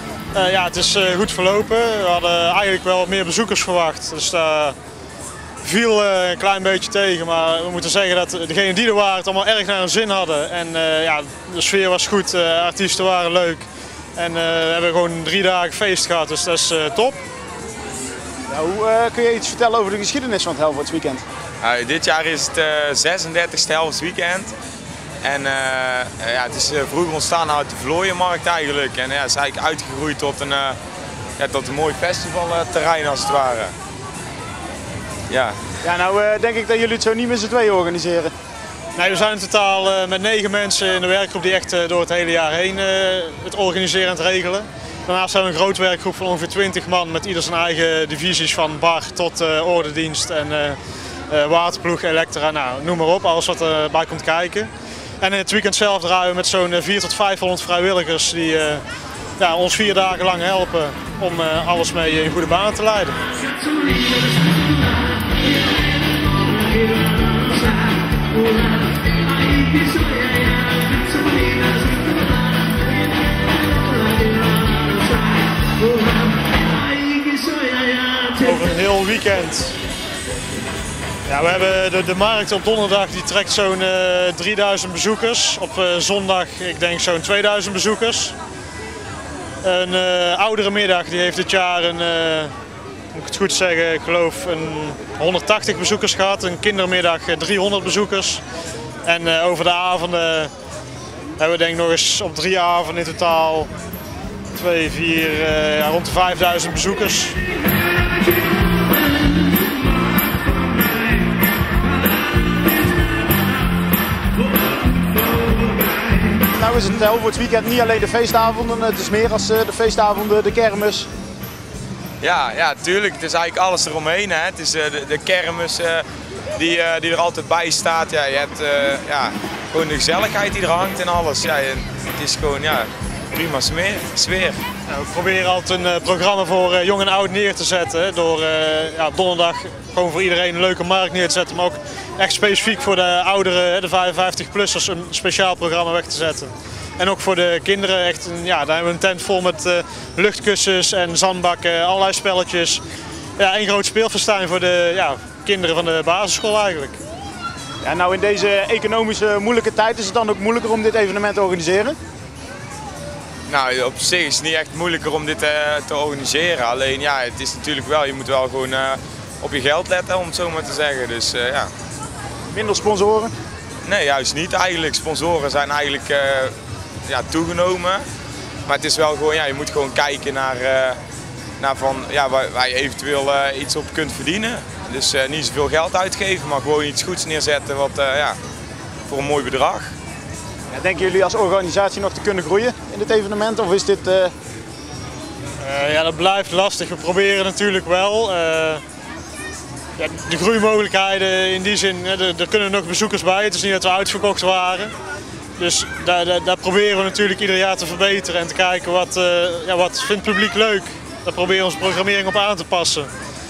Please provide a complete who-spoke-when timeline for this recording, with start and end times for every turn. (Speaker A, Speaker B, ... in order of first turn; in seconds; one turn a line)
Speaker A: 0.3-4.8
Speaker A: 5.6-17.2
Speaker B: 18.5-21.2
Speaker C: 21.6-24.5
Speaker C: 25.2-30.8
Speaker C: 31.4-33.7
Speaker C: 35.3-35.6
Speaker B: 35.8-38.3
Speaker A: 39.0-58.8
Speaker A: 59.4-63.2
Speaker A: 78.0-79.8
Speaker A: 81.3-88.4
Speaker A: 89.6-92.5
Speaker A: 93.1-98.4
Speaker A: 99.0-100.5
Speaker A: 101.4-103.7
Speaker A: 104.5-107.4
Speaker B: 116.5-121.1
Speaker C: 122.2-126.0
Speaker C: 126.5-134.6
Speaker A: 134.9-152.8
Speaker A: 153.4-157.0
Speaker B: 157.8-162.0
Speaker C: 163.5-171.7
Speaker B: 172.5-173.3
Speaker C: 173.8-176.5
Speaker C: 177.1-178.0
Speaker C: 178.7-181.0
Speaker C: 181.6-188.4
Speaker C: 189.1-189.9
Speaker B: 190.7-194.3
Speaker A: 195.6-198.8
Speaker A: 200.0-204.9
Speaker A: 205.6-213.1